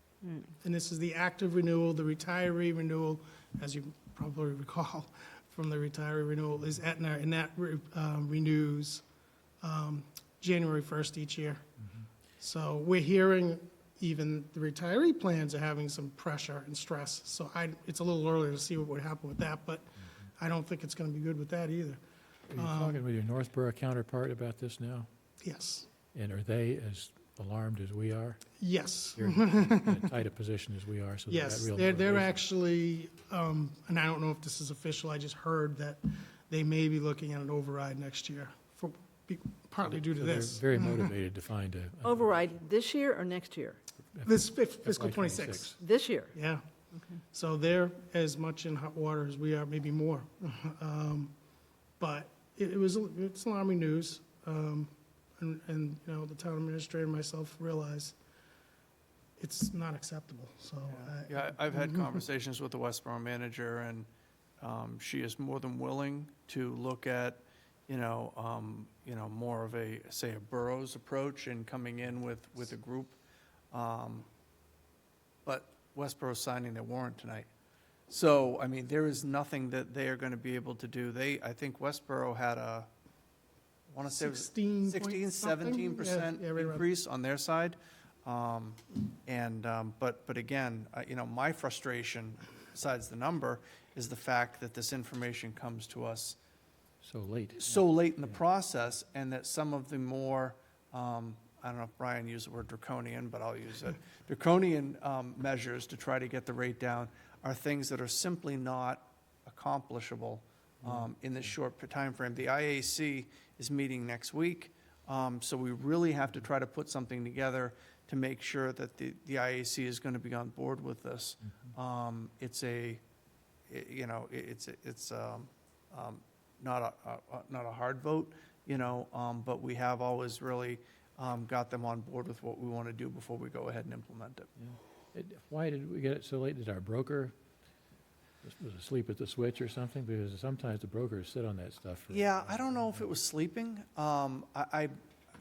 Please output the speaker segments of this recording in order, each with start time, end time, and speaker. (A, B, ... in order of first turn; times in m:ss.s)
0:00.2-0:00.5 A
0:00.6-0:09.0 B
0:09.6-0:11.6 B
0:12.4-0:22.0 B
0:22.5-0:25.1 C
0:22.6-0:23.0 B
0:25.4-0:25.9 B
0:26.1-0:28.4 C
0:28.6-0:30.0 B
0:29.2-0:32.3 C
0:31.3-0:41.0 B
0:39.8-0:42.4 C
0:42.0-0:43.8 A
0:44.1-0:45.7 C
0:44.2-0:45.8 B
0:45.8-0:46.4 A
0:46.3-0:46.6 B
0:47.3-0:51.3 B
0:52.0-0:58.1 B
0:59.4-1:02.2 B
1:00.9-1:04.1 D
1:04.6-1:13.2 D
1:13.7-1:14.3 D
1:15.4-1:17.5 D
1:18.1-1:22.9 D
1:23.9-1:36.4 D
1:24.0-1:26.8 B
1:37.0-1:38.4 C
1:37.6-2:03.0 D
2:03.7-2:14.5 D
2:14.6-2:17.3 C
2:18.4-2:23.0 C
2:22.1-2:24.9 D